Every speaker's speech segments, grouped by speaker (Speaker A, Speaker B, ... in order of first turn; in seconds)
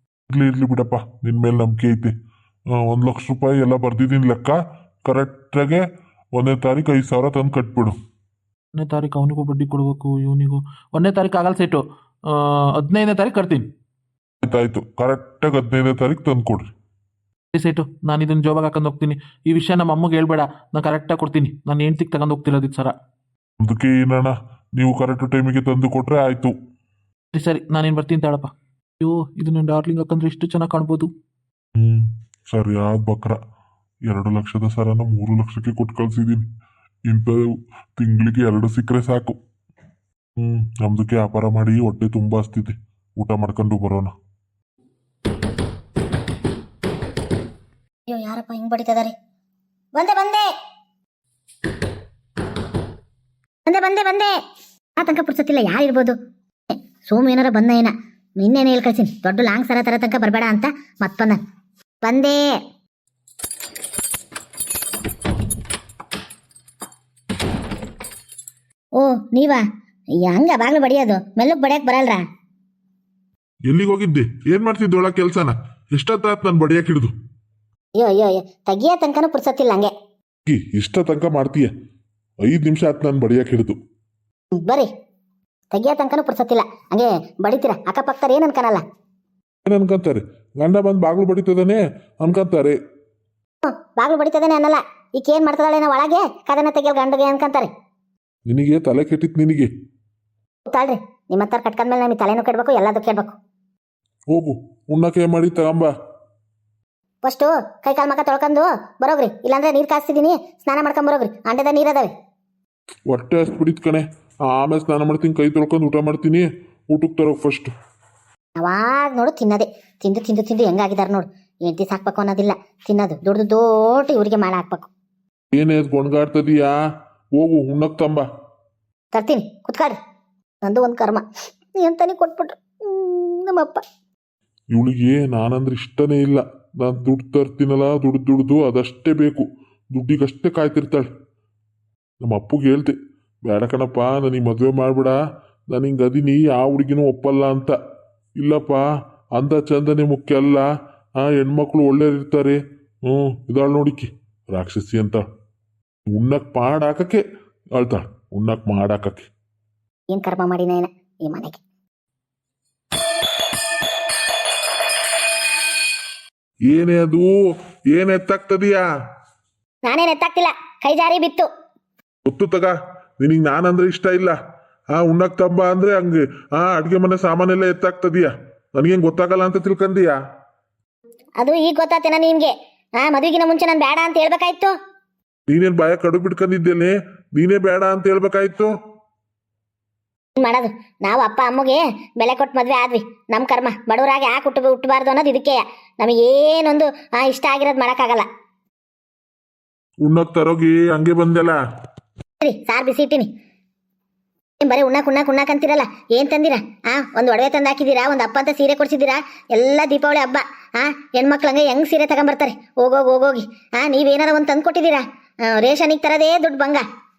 Speaker A: 0.3-2.1, 2.7-7.9, 14.4-16.7, 23.6-26.5, 31.7-33.4, 34.0-36.4, 37.0-39.4, 40.4-44.1, 73.6-77.1, 80.5-81.7, 82.4-83.8, 89.6-92.8, 98.5-99.7, 104.3-105.9, 113.0-117.7, 125.5-126.8, 127.3-128.2, 134.7-141.1, 142.2-145.2, 145.7-147.8, 148.4-155.2, 156.1-157.2, 157.7-159.3, 166.7-167.3, 167.9-168.8, 172.2-174.4, 174.9-180.2, 185.5-188.7, 200.0-201.6
Speaker B: 8.7-13.7, 17.5-22.9, 27.3-28.5, 29.0-31.1
Speaker C: 48.1-49.1, 49.9-50.5, 53.6-54.3, 55.0-56.1, 56.7-61.4, 62.0-62.5, 69.0-69.6, 70.2-72.2, 77.9-79.9, 84.6-84.9, 85.7-88.8, 93.6-97.7, 100.7-103.3, 107.2-112.1, 118.6-124.9, 129.1-130.0, 130.6-131.2, 131.8-133.8, 160.1-161.6, 169.8-171.5, 181.4-184.7, 190.3-198.3, 202.4-203.3, 204.6-216.8